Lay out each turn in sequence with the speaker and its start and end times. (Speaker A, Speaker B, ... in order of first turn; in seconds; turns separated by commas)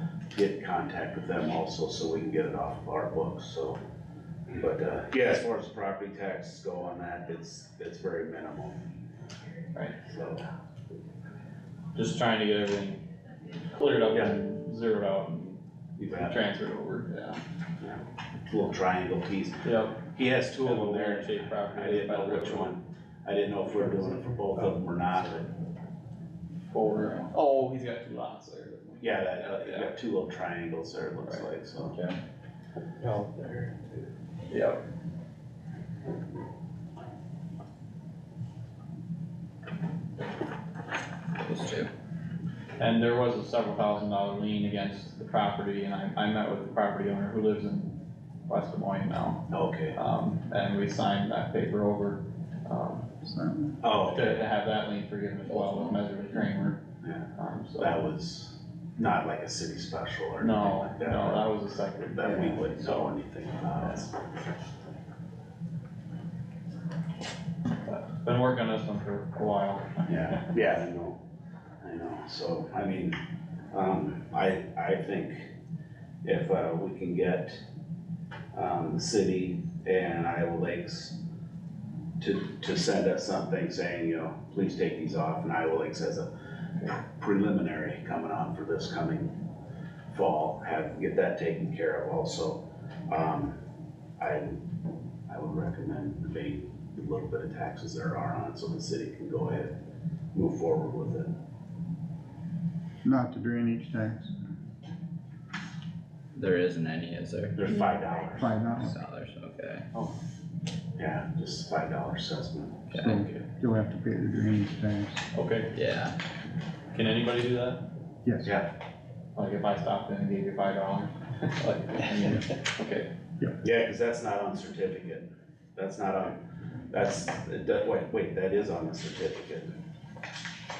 Speaker A: 0.3-3.8, Speaker A: 4.5-8.8, Speaker A: 10.1-10.4, Speaker B: 11.9-13.0, Speaker B: 13.7-15.6, Speaker A: 16.0-16.4, Speaker B: 16.2-17.4, Speaker A: 17.8-25.5, Speaker B: 19.6-20.0, Speaker B: 20.6-22.7, Speaker B: 26.7-29.9, Speaker A: 29.0-32.0, Speaker C: 31.9-32.2, Speaker A: 33.3-33.7, Speaker B: 34.5-34.8, Speaker C: 41.4-41.9, Speaker B: 42.8-48.0, Speaker B: 48.5-53.1, Speaker A: 49.5-50.0, Speaker D: 53.2-53.8, Speaker A: 53.8-54.4, Speaker B: 54.1-56.8, Speaker A: 57.0-61.5, Speaker B: 57.4-58.0, Speaker B: 60.4-63.1, Speaker A: 62.1-64.1, Speaker B: 63.8-64.1, Speaker B: 67.8-70.4, Speaker A: 70.1-71.2, Speaker A: 71.8-73.2, Speaker A: 73.7-75.5, Speaker A: 76.2-77.6, Speaker A: 78.5-81.1, Speaker A: 82.2-86.3, Speaker A: 86.8-89.3, Speaker A: 90.1-93.5, Speaker A: 94.2-94.6, Speaker A: 95.3-99.7, Speaker A: 100.3-101.3, Speaker D: 103.0-104.3, Speaker C: 106.3-107.6, Speaker A: 107.5-108.5, Speaker D: 108.3-109.0, Speaker C: 108.7-109.8, Speaker A: 111.0-113.3, Speaker C: 112.9-113.2, Speaker D: 113.0-115.2, Speaker B: 115.3-115.7, Speaker C: 115.7-116.2, Speaker B: 116.9-117.8, Speaker D: 118.2-118.5, Speaker B: 119.3-123.1, Speaker A: 123.6-126.4, Speaker A: 126.9-129.7